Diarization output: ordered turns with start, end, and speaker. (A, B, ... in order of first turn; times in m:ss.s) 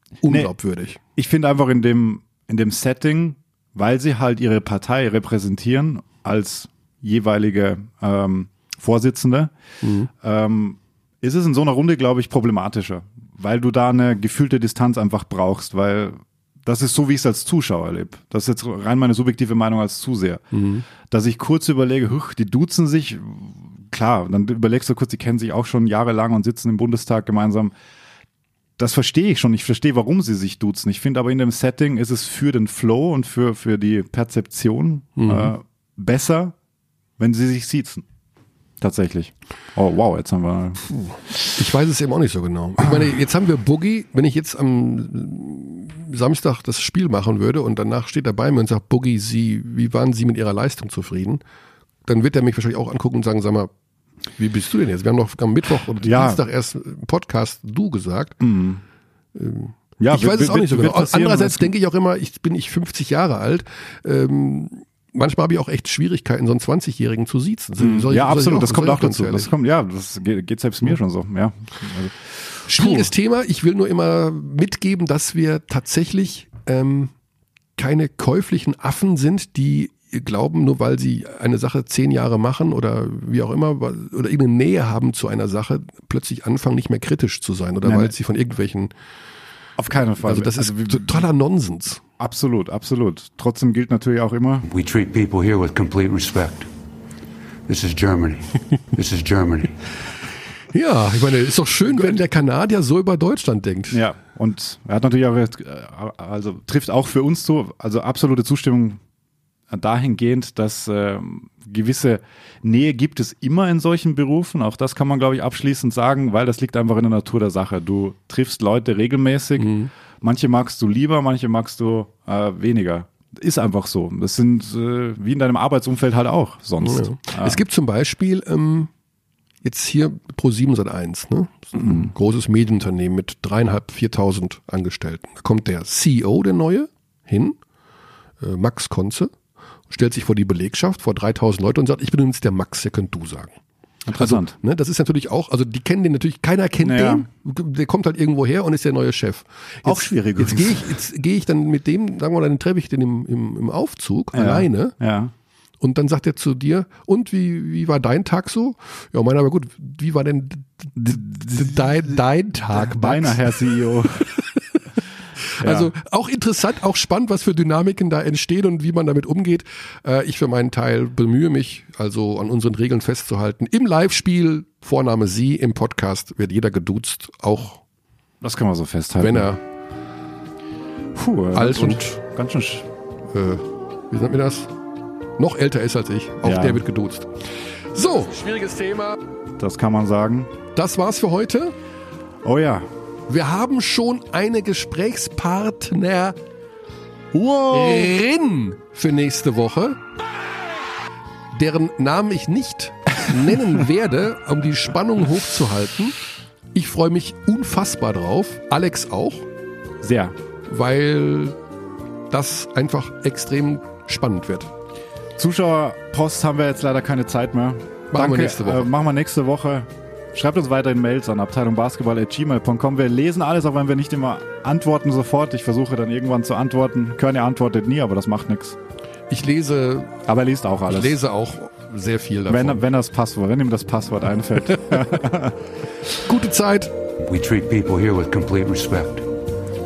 0:00.2-0:01.0 A
0:00.2-0:00.5 B
0:01.2-0:09.5 B
0:09.8-0:10.1 A
0:10.1-0:20.4 B
0:20.5-0:20.8 A
0:21.0-0:27.7 B
0:28.8-0:36.5 B
0:35.2-0:35.5 A
0:37.2-0:38.0 B
0:38.8-0:40.9 B
0:40.9-0:51.4 A
0:52.0-0:53.7 A
0:54.4-0:58.4 A
0:56.0-0:56.4 B
0:58.4-0:58.8 B
0:59.3-1:09.5 A
1:00.0-1:01.7 B
1:07.8-1:13.1 B
1:12.7-1:17.1 A
1:17.8-1:28.9 A
1:27.8-1:28.1 B
1:29.8-1:31.3 B
1:30.2-1:32.0 A
1:32.2-1:34.7 B
1:34.6-1:36.9 C
1:37.6-1:39.8 C
1:40.7-1:44.0 A
1:41.8-1:42.2 B
1:43.9-1:49.0 B
1:49.7-2:07.6 B
1:59.6-1:59.9 A
2:06.8-2:08.9 A
2:09.6-2:17.6 A
2:11.8-2:12.1 B
2:18.4-2:19.3 A
2:19.9-2:23.6 A
2:24.0-2:24.5 B
2:24.1-2:35.0 A
2:26.8-2:27.3 B
2:29.8-2:31.0 B
2:34.3-2:35.3 B
2:35.8-2:43.6 A
2:41.0-2:41.9 B
2:42.7-2:44.4 B
2:45.6-2:57.8 A
2:45.6-2:45.9 B
2:58.4-2:59.5 B
2:59.2-2:59.6 A
3:01.1-3:02.9 B
3:01.5-3:02.2 A
3:03.3-3:04.7 A
3:05.4-3:09.2 A
3:06.4-3:06.8 B
3:09.6-3:10.5 B
3:10.7-3:11.7 A
3:12.4-3:12.9 B
3:13.3-3:16.4 A
3:17.3-3:18.1 B
3:17.7-3:20.0 A
3:21.5-3:26.2 A
3:26.7-3:29.5 A
3:30.0-3:30.3 B
3:30.7-3:31.6 A
3:32.3-3:34.7 A
3:35.4-3:48.8 B
3:38.1-3:38.9 A
3:49.3-3:50.2 A
3:50.3-3:51.2 B
3:50.8-3:52.8 A
3:52.5-3:55.6 B
3:56.2-3:56.9 A
3:57.2-3:59.5 C